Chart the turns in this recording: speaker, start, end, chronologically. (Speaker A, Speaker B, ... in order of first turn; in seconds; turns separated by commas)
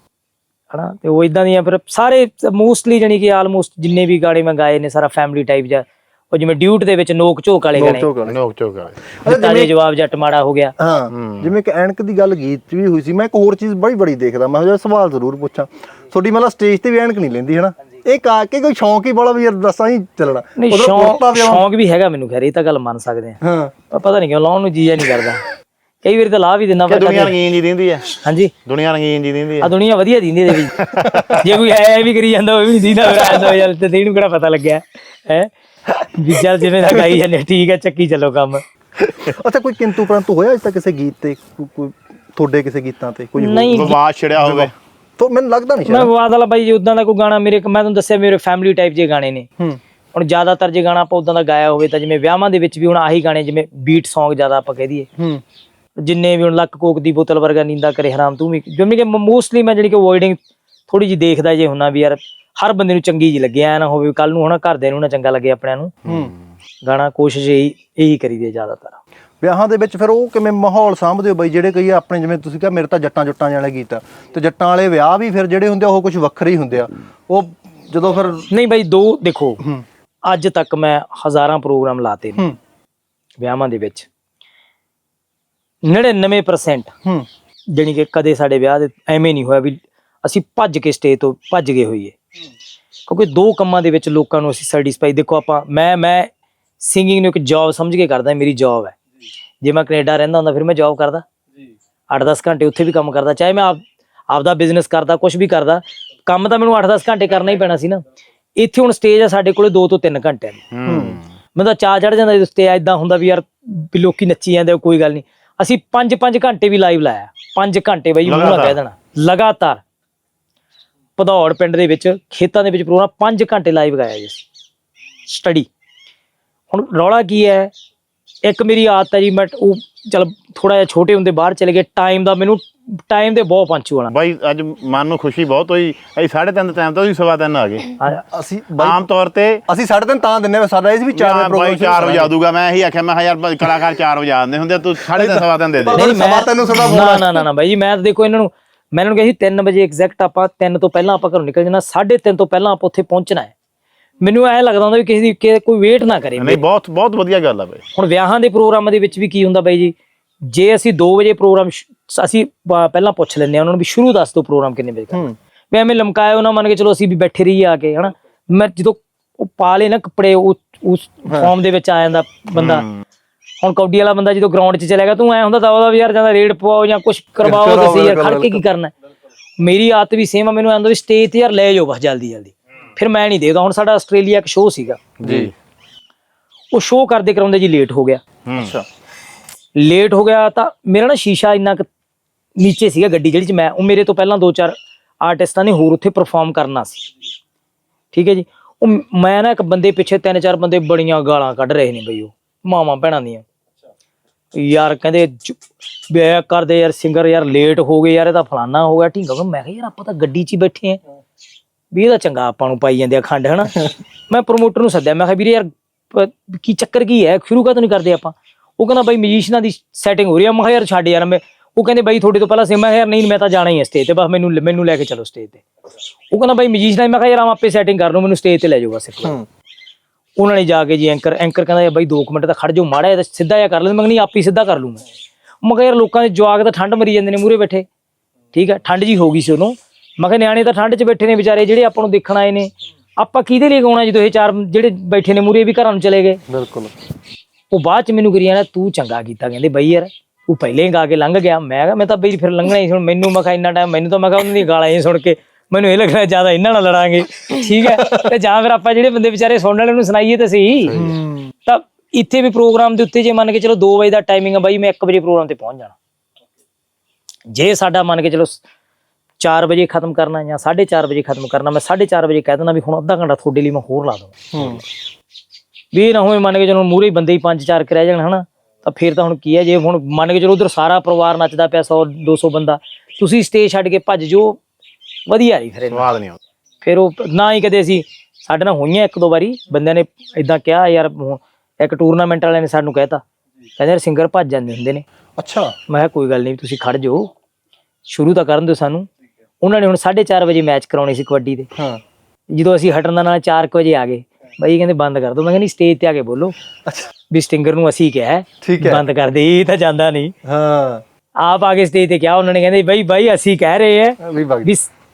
Speaker A: 0.7-8.1, Speaker B: 7.8-8.4, Speaker C: 8.3-9.0, Speaker B: 9.2-9.7, Speaker A: 9.2-10.7, Speaker B: 10.8-21.7, Speaker C: 11.1-11.5, Speaker A: 20.6-23.4, Speaker B: 23.4-23.7, Speaker A: 23.9-25.4, Speaker A: 26.0-27.4, Speaker C: 26.9-29.7, Speaker A: 28.2-28.5, Speaker A: 29.6-30.8, Speaker C: 30.7-31.4, Speaker B: 31.0-31.3, Speaker A: 31.3-38.6, Speaker B: 39.0-46.1, Speaker A: 43.4-44.0, Speaker C: 43.7-44.7, Speaker A: 45.9-49.5, Speaker A: 50.1-55.1, Speaker A: 56.0-65.9, Speaker B: 66.1-66.3, Speaker A: 66.8-69.0, Speaker B: 69.4-78.5, Speaker A: 78.5-79.6, Speaker A: 80.3-82.5, Speaker A: 83.4-84.1, Speaker A: 85.8-86.9, Speaker A: 87.7-92.2, Speaker A: 93.1-99.0, Speaker A: 99.6-101.2, Speaker A: 102.1-108.0, Speaker A: 108.6-110.6, Speaker C: 110.7-111.2, Speaker B: 110.8-111.2, Speaker A: 111.5-119.8, Speaker C: 118.2-118.8, Speaker A: 121.2-124.4, Speaker A: 125.2-125.7, Speaker A: 126.7-127.7, Speaker A: 128.4-134.1, Speaker C: 134.1-138.0, Speaker B: 138.3-139.0, Speaker C: 138.8-139.6, Speaker B: 139.7-142.3, Speaker C: 141.1-146.1, Speaker B: 145.1-147.4, Speaker A: 145.8-153.5, Speaker A: 154.2-156.6, Speaker C: 156.4-157.8, Speaker A: 158.0-159.9, Speaker A: 160.5-172.8, Speaker C: 172.6-172.9, Speaker A: 173.6-178.9, Speaker B: 177.4-178.6, Speaker A: 179.6-185.1, Speaker C: 185.2-185.5, Speaker B: 185.2-185.5, Speaker A: 186.7-188.2, Speaker C: 188.5-188.8, Speaker B: 188.6-188.8, Speaker A: 189.8-191.8, Speaker A: 192.6-197.1, Speaker A: 198.1-203.4, Speaker A: 204.5-211.0, Speaker A: 211.9-225.6, Speaker A: 226.3-229.4, Speaker A: 230.4-235.0, Speaker A: 235.6-237.9, Speaker A: 238.5-246.4, Speaker B: 246.5-246.9, Speaker A: 247.7-261.0, Speaker B: 258.0-258.2, Speaker B: 260.9-261.5, Speaker A: 261.7-266.0, Speaker A: 267.5-268.6, Speaker A: 269.4-274.4, Speaker B: 274.5-274.8, Speaker A: 275.9-284.6, Speaker A: 285.3-286.1, Speaker C: 285.9-286.4, Speaker A: 286.8-293.2, Speaker A: 293.8-295.0, Speaker B: 295.4-295.7, Speaker A: 295.9-297.3, Speaker A: 298.1-299.1, Speaker A: 299.6-301.7, Speaker B: 301.8-302.0, Speaker A: 302.5-306.6, Speaker A: 307.3-310.3, Speaker B: 308.6-309.0, Speaker B: 310.5-311.0, Speaker A: 311.4-314.9, Speaker B: 314.2-314.7